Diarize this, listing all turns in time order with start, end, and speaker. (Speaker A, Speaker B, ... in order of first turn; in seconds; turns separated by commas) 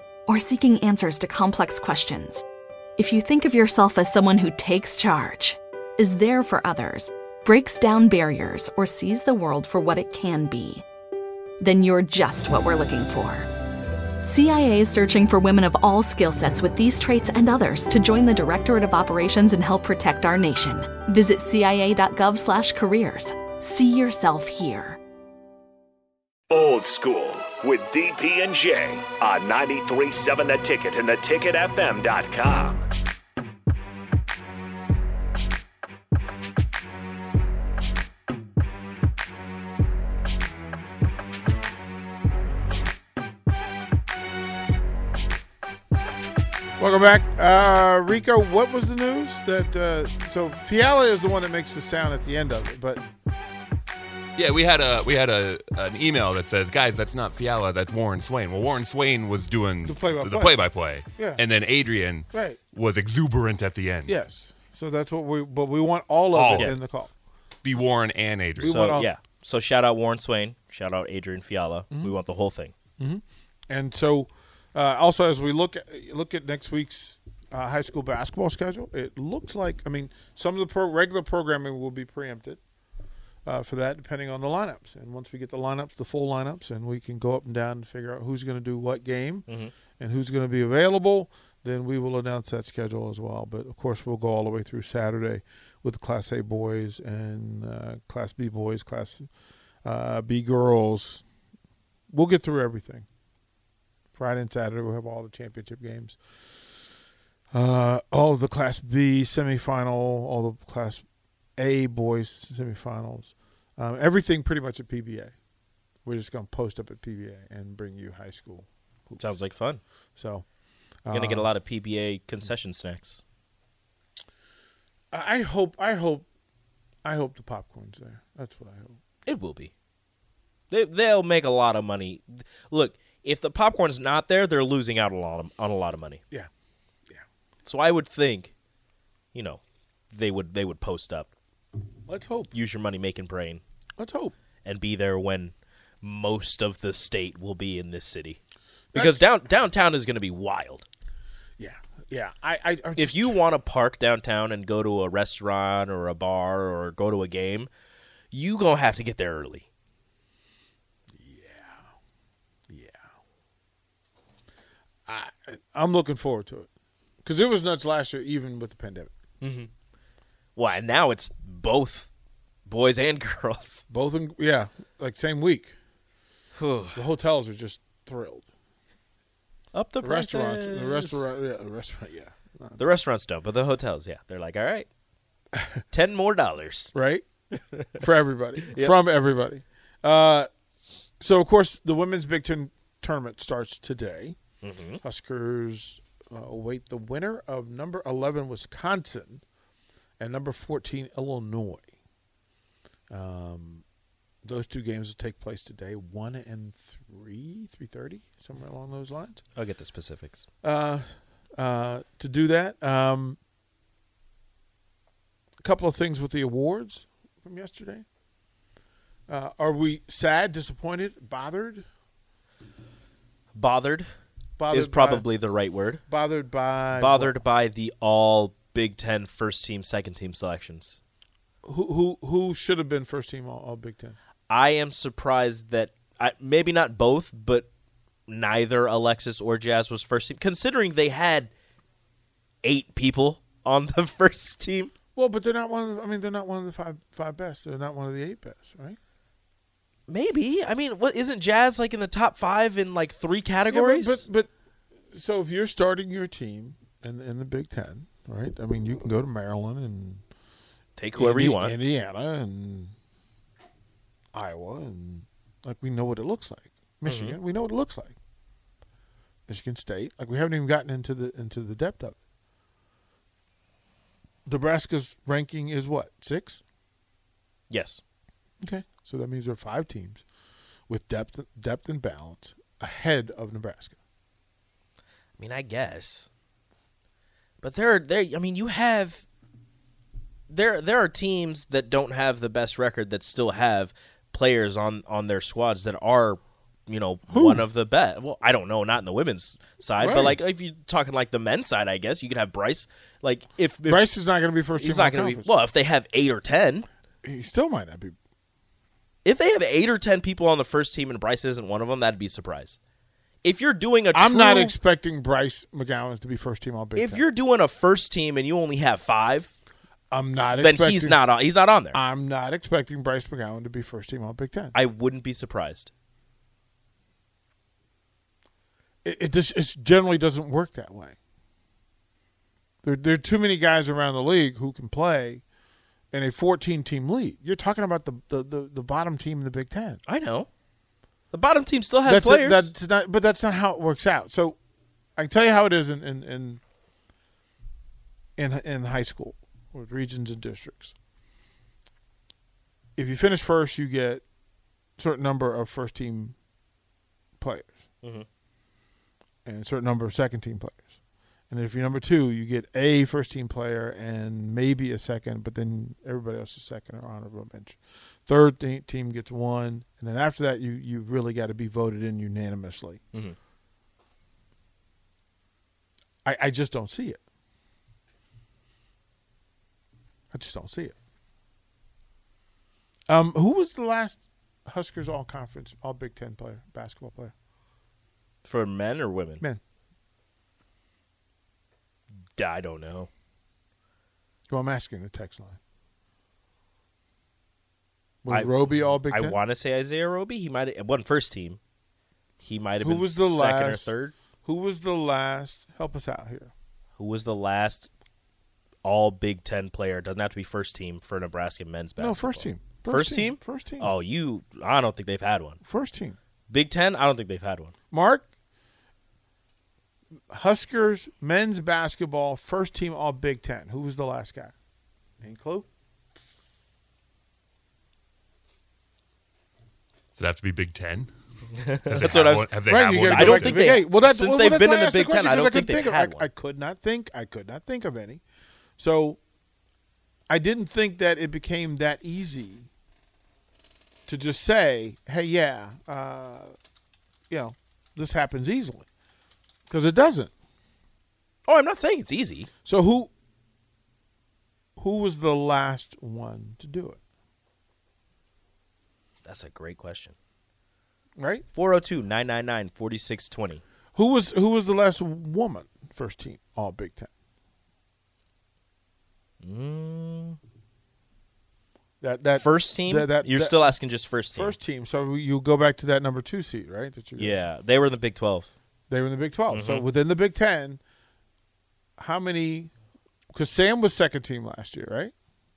Speaker A: 0.3-2.4, Speaker A: 3.0-10.8, Speaker A: 11.6-13.5, Speaker A: 14.2-25.0, Speaker B: 26.5-32.9, Speaker C: 46.8-53.0, Speaker D: 54.4-64.2, Speaker C: 59.8-60.6, Speaker C: 61.2-61.4, Speaker C: 62.3-62.6, Speaker C: 64.1-67.1, Speaker D: 66.3-66.8, Speaker D: 67.6-68.9, Speaker C: 68.6-69.1, Speaker E: 68.6-72.7, Speaker C: 71.9-72.2, Speaker C: 73.0-82.6, Speaker C: 83.5-89.5, Speaker E: 89.5-89.7, Speaker C: 90.0-99.3, Speaker C: 99.8-101.2, Speaker C: 102.1-103.1, Speaker C: 104.2-106.2, Speaker C: 107.5-111.0, Speaker C: 111.6-115.3, Speaker C: 116.0-119.3, Speaker E: 119.2-119.8, Speaker C: 120.2-120.5, Speaker C: 121.0-121.5, Speaker E: 121.1-123.2, Speaker C: 125.1-126.3, Speaker C: 127.0-129.0, Speaker E: 129.2-129.7, Speaker E: 130.7-136.2, Speaker E: 137.7-138.5, Speaker E: 139.3-141.3, Speaker C: 142.1-142.5, Speaker E: 142.5-143.6, Speaker C: 144.0-144.3, Speaker E: 144.7-148.4, Speaker C: 148.9-149.2, Speaker E: 148.9-150.9, Speaker C: 151.6-153.4, Speaker E: 153.0-157.7, Speaker E: 158.3-159.7, Speaker C: 161.1-161.9, Speaker C: 162.7-163.0, Speaker C: 165.1-166.7, Speaker C: 167.2-169.1, Speaker E: 169.4-169.7, Speaker E: 170.6-172.1, Speaker E: 172.7-173.8, Speaker C: 173.9-175.8, Speaker E: 176.6-177.0, Speaker C: 176.9-178.5, Speaker E: 179.7-181.2, Speaker C: 180.0-182.8, Speaker E: 182.8-184.9, Speaker C: 185.5-185.8, Speaker E: 185.9-186.9, Speaker C: 186.9-187.2, Speaker C: 187.9-190.5, Speaker C: 191.2-194.4, Speaker E: 194.6-195.0, Speaker C: 195.0-199.4, Speaker C: 200.2-201.8, Speaker C: 203.1-203.8, Speaker C: 204.4-209.4, Speaker E: 209.6-210.4, Speaker C: 210.6-213.4, Speaker C: 215.6-218.1, Speaker C: 219.3-221.8, Speaker E: 223.6-224.1, Speaker C: 224.6-225.3, Speaker E: 224.7-226.0, Speaker C: 226.1-227.4, Speaker E: 226.9-231.0, Speaker C: 231.6-234.2, Speaker E: 234.5-237.7, Speaker E: 238.3-241.5, Speaker E: 242.6-244.9, Speaker C: 245.2-249.0, Speaker E: 250.1-254.2, Speaker C: 253.7-254.5, Speaker C: 255.1-260.2, Speaker E: 261.0-261.8, Speaker C: 261.1-262.9, Speaker C: 264.3-268.2, Speaker E: 267.1-267.4, Speaker C: 269.5-272.2, Speaker C: 274.4-276.6, Speaker E: 277.7-278.0, Speaker C: 278.6-280.2, Speaker C: 280.9-284.0, Speaker E: 285.4-286.3, Speaker E: 287.6-289.2, Speaker E: 290.5-304.1, Speaker C: 297.3-297.7, Speaker C: 300.0-300.4, Speaker C: 303.9-305.5, Speaker E: 304.8-306.9, Speaker C: 307.2-308.2, Speaker E: 309.2-312.8, Speaker E: 313.4-314.8, Speaker C: 314.1-317.2, Speaker E: 316.9-319.5, Speaker C: 320.1-321.2, Speaker E: 320.6-322.0, Speaker C: 321.9-324.8, Speaker E: 324.7-325.9, Speaker C: 329.0-331.2, Speaker C: 332.8-335.4, Speaker C: 336.1-340.0, Speaker E: 340.1-340.5, Speaker E: 341.3-342.7, Speaker C: 342.1-344.6, Speaker C: 345.2-346.6, Speaker C: 348.4-350.9, Speaker C: 352.9-354.2, Speaker C: 355.0-356.4, Speaker C: 357.4-357.8, Speaker C: 359.4-360.9, Speaker C: 361.5-373.0, Speaker C: 376.2-377.2, Speaker C: 380.3-380.9, Speaker C: 383.1-387.3, Speaker E: 388.4-389.4, Speaker E: 392.4-393.1, Speaker C: 394.5-395.6, Speaker C: 398.2-399.4, Speaker E: 398.3-401.6, Speaker E: 402.4-404.1, Speaker C: 402.8-406.5, Speaker E: 407.0-407.9, Speaker E: 408.8-415.6, Speaker C: 412.0-413.9, Speaker C: 415.6-416.2, Speaker E: 416.5-417.7, Speaker C: 417.9-418.3, Speaker C: 420.3-424.6, Speaker C: 425.2-425.7, Speaker D: 430.1-431.1, Speaker E: 431.7-432.5, Speaker D: 431.7-433.8, Speaker C: 432.6-438.2, Speaker E: 433.1-436.3, Speaker C: 438.8-439.2, Speaker C: 440.3-442.7, Speaker C: 444.1-446.6, Speaker C: 447.3-448.9, Speaker C: 449.7-450.3, Speaker E: 451.5-452.5, Speaker C: 452.6-453.1, Speaker C: 454.8-457.0, Speaker E: 459.2-460.1, Speaker C: 461.2-461.4, Speaker E: 461.5-463.6, Speaker C: 463.9-467.1, Speaker E: 469.4-470.4, Speaker C: 472.0-473.6, Speaker E: 472.4-474.6, Speaker C: 474.3-477.4, Speaker E: 477.2-478.5, Speaker C: 478.9-480.8, Speaker E: 479.5-479.9, Speaker C: 482.0-482.7, Speaker C: 483.3-485.1